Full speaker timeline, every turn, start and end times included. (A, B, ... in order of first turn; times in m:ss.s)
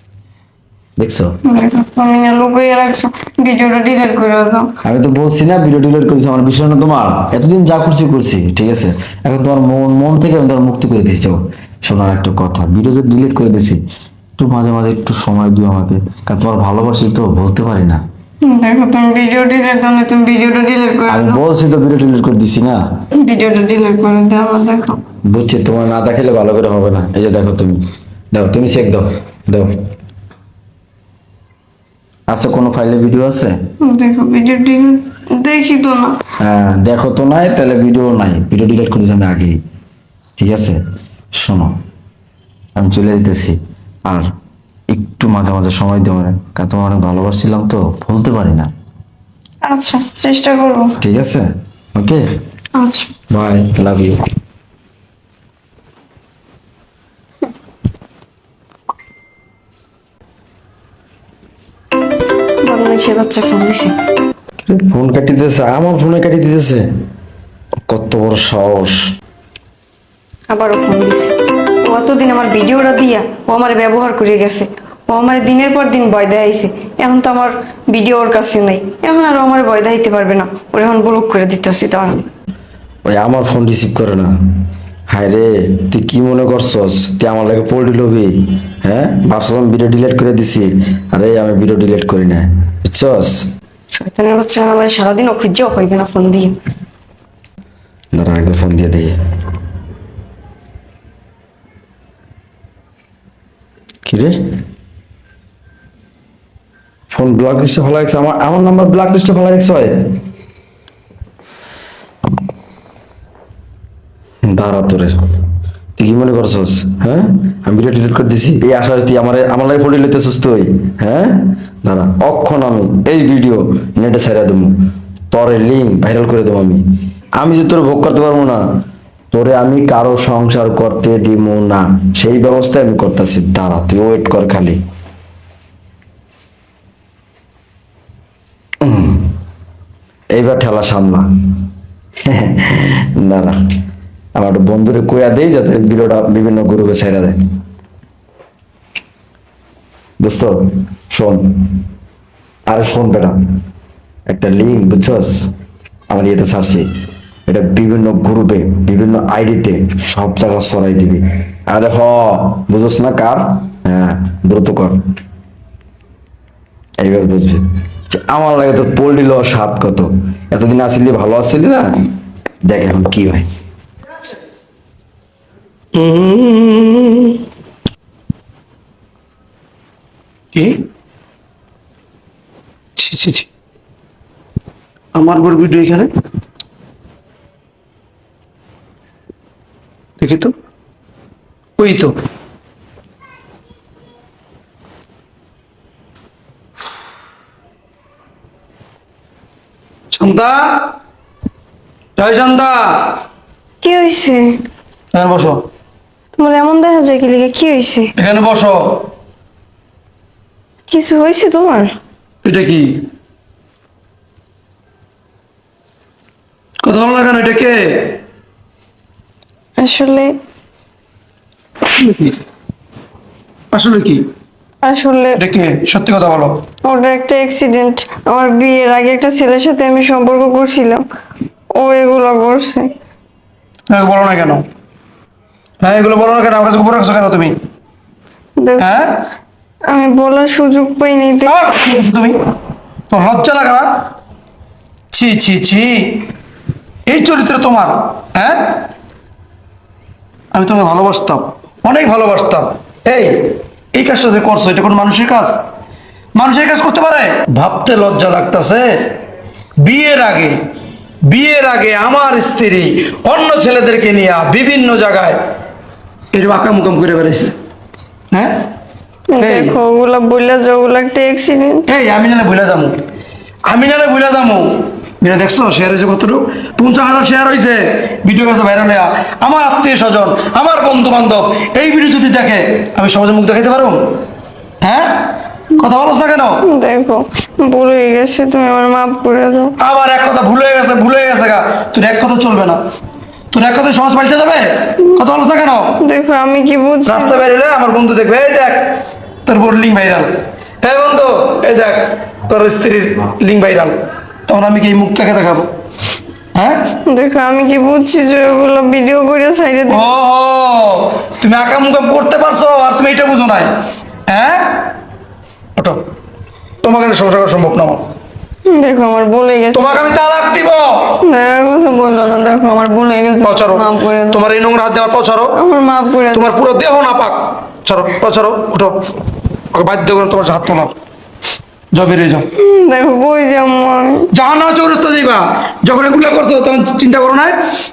0:01.0-0:01.4 A
0:01.4-0:04.7 B
0:04.8-0:13.8 A
0:14.4-0:18.0 A
0:18.4-0:21.4 B
0:21.1-0:22.8 A
0:23.1-0:25.0 B
0:25.3-0:27.8 A
0:28.3-0:29.7 A
0:32.3-0:33.6 A
0:33.8-0:36.2 B
0:36.4-0:39.6 A
0:40.4-0:40.8 A
0:41.4-0:41.8 A
0:42.8-0:44.3 A
0:44.9-0:48.7 A
0:49.6-0:51.0 B
0:51.0-0:52.2 A
0:52.8-0:53.1 B
0:53.3-0:54.2 A
1:02.6-1:04.0 B
1:04.7-1:06.8 A
1:07.9-1:09.0 A
1:10.5-1:22.2 B
1:23.0-1:24.3 A
1:25.1-1:33.4 A
1:33.9-1:36.6 B
1:38.1-1:39.2 A
1:44.1-1:44.4 A
1:47.1-1:50.1 A
1:54.5-1:55.1 A
1:56.0-2:04.7 A
2:05.3-2:06.8 A
2:07.4-2:08.6 A
2:09.3-2:14.8 A
2:18.8-2:19.3 A
2:20.4-2:21.2 A
2:22.2-2:23.6 A
2:24.4-2:27.4 A
2:30.2-2:31.8 A
2:32.7-2:33.4 A
2:34.3-2:35.5 A
2:36.1-2:36.9 A
2:37.5-2:45.0 A
2:47.0-2:52.1 A
2:52.6-2:53.5 A
2:55.9-2:57.4 C
3:00.5-3:00.8 C
3:03.0-3:03.5 C
3:05.1-3:06.1 C
3:10.2-3:10.5 C
3:11.8-3:12.1 C
3:20.1-3:20.9 C
3:22.2-3:23.2 C
3:23.8-3:24.6 B
3:25.1-3:25.6 C
3:26.4-3:28.1 B
3:28.2-3:29.0 C
3:30.9-3:31.9 B
3:32.4-3:33.0 C
3:36.8-3:38.2 C
3:39.8-3:40.3 B
3:41.9-3:42.4 C
3:43.7-3:44.3 C
3:44.8-3:45.4 B
3:45.4-3:46.6 C
3:46.8-3:51.0 B
3:51.8-3:52.9 B
3:53.9-3:54.6 C
3:55.8-3:57.5 C
3:58.6-3:58.9 B
3:58.8-3:59.2 C
3:59.9-4:01.5 B
4:01.5-4:02.4 C
4:03.1-4:03.9 C
4:05.1-4:06.2 C
4:07.1-4:08.8 C
4:10.5-4:15.6 C
4:16.4-4:19.2 C
4:19.8-4:20.6 C
4:21.3-4:25.4 C
4:26.3-4:27.5 C
4:28.3-4:28.6 C
4:29.3-4:31.9 B
4:29.4-4:29.8 C
4:31.9-4:33.0 C
4:33.7-4:44.1 C
4:44.8-4:46.6 C
4:46.6-4:49.8 B
4:49.8-4:52.8 C
4:53.5-4:56.0 C
4:56.0-4:57.4 B
4:57.1-5:00.3 C
5:00.8-5:04.0 C
5:04.5-5:05.7 C
5:06.6-5:06.9 C
5:07.1-5:10.1 B
5:09.9-5:13.7 C
5:14.3-5:14.9 C
5:15.8-5:16.0 C
5:16.8-5:18.0 C
5:18.7-5:20.0 B
5:19.7-5:21.2 C
5:21.2-5:24.4 B
5:23.4-5:25.6 C
5:25.6-5:26.5 B
5:26.3-5:29.1 C
5:29.7-5:30.9 C
5:31.9-5:32.5 C
5:32.6-5:34.3 B
5:34.3-5:37.6 C